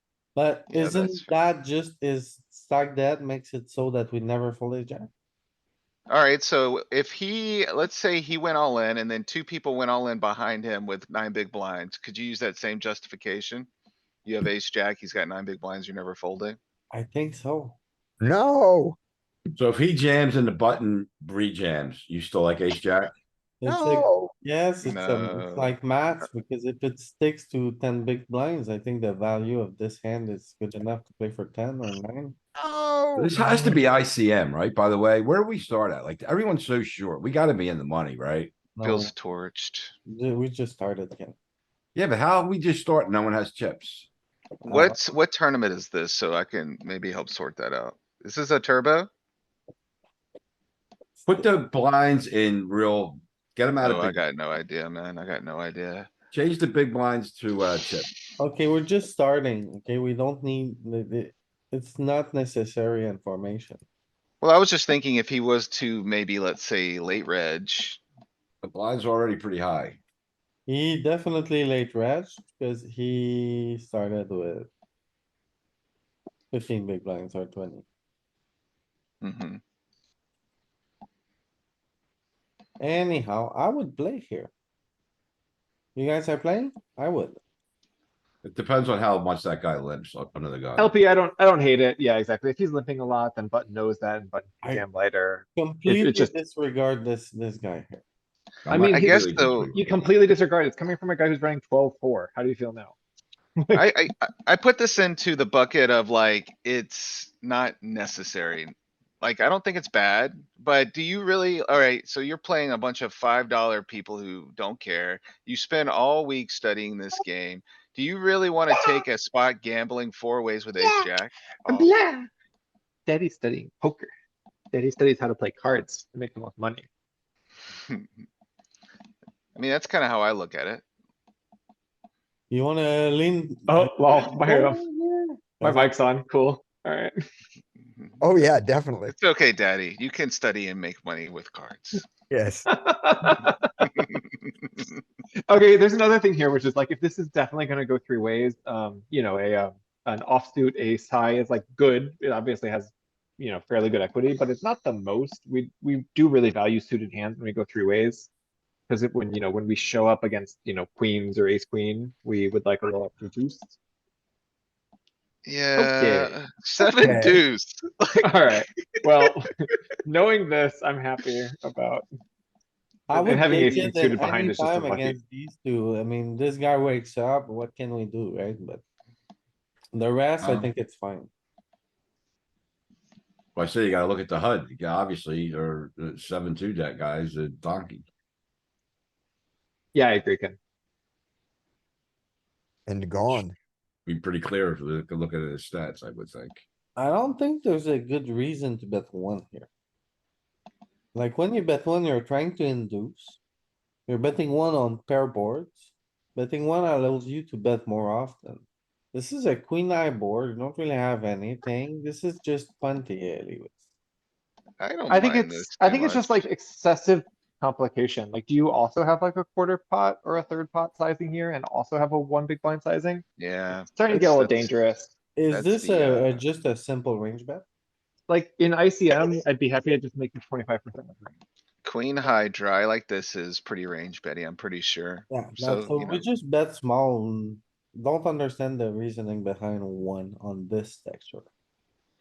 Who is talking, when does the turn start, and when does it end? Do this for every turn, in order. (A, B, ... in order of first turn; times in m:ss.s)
0:00.3-0:05.1 A
0:00.7-0:01.3 B
0:06.1-0:13.7 B
0:14.2-0:16.6 B
0:16.9-0:17.8 A
0:18.2-0:19.0 C
0:19.5-0:23.1 D
0:23.6-0:32.4 A
0:23.6-0:24.3 C
0:24.8-0:25.7 B
0:32.6-0:33.4 C
0:33.2-0:38.5 D
0:33.4-0:33.8 A
0:38.7-0:39.1 A
0:38.8-0:39.9 B
0:40.1-0:41.3 A
0:41.9-0:44.1 D
0:44.6-0:45.0 A
0:44.7-0:49.1 B
0:51.2-0:51.4 A
0:51.3-0:54.2 D
0:53.8-0:56.1 B
0:56.3-0:58.1 D
0:58.4-1:03.8 A
1:04.4-1:08.0 B
1:08.6-1:10.0 D
1:10.7-1:14.7 A
1:16.5-1:17.8 A
1:19.2-1:19.6 B
1:22.8-1:24.5 A
1:25.9-1:27.4 A
1:28.4-1:30.9 D
1:30.8-1:36.3 E
1:35.6-1:38.0 A
1:38.6-1:40.1 D
1:38.7-1:42.9 E
1:38.9-1:39.7 B
1:43.7-2:01.9 B
2:01.7-2:02.3 E
2:03.1-2:04.1 E
2:04.7-2:06.8 E
2:09.6-2:10.8 B
2:12.5-2:15.9 A
2:13.7-2:14.8 E
2:15.6-2:17.1 E
2:18.2-2:19.1 C
2:19.1-2:22.1 B
2:22.3-2:22.7 C
2:22.8-2:23.6 E
2:23.8-2:24.9 B
2:25.5-2:38.3 E
2:38.9-2:43.8 E
2:45.4-2:48.2 B
2:45.8-2:46.3 E
2:47.0-2:47.4 C
2:48.2-2:52.0 E
2:53.1-2:58.8 A
2:53.1-2:55.2 E
2:59.9-3:01.3 A
3:00.4-3:00.7 D
3:03.6-3:08.0 D
3:09.9-3:10.6 E
3:12.9-3:13.5 C
3:14.0-3:16.6 D
3:17.0-3:19.7 A
3:21.1-3:23.4 A
3:24.1-3:33.8 A
3:34.8-3:36.4 B
3:35.1-3:43.2 E
3:43.4-3:44.7 B
3:43.9-3:45.1 E
3:45.4-3:47.6 A
3:45.5-3:46.4 B
3:48.3-3:51.3 E
3:51.8-3:56.2 B
3:55.3-4:01.5 A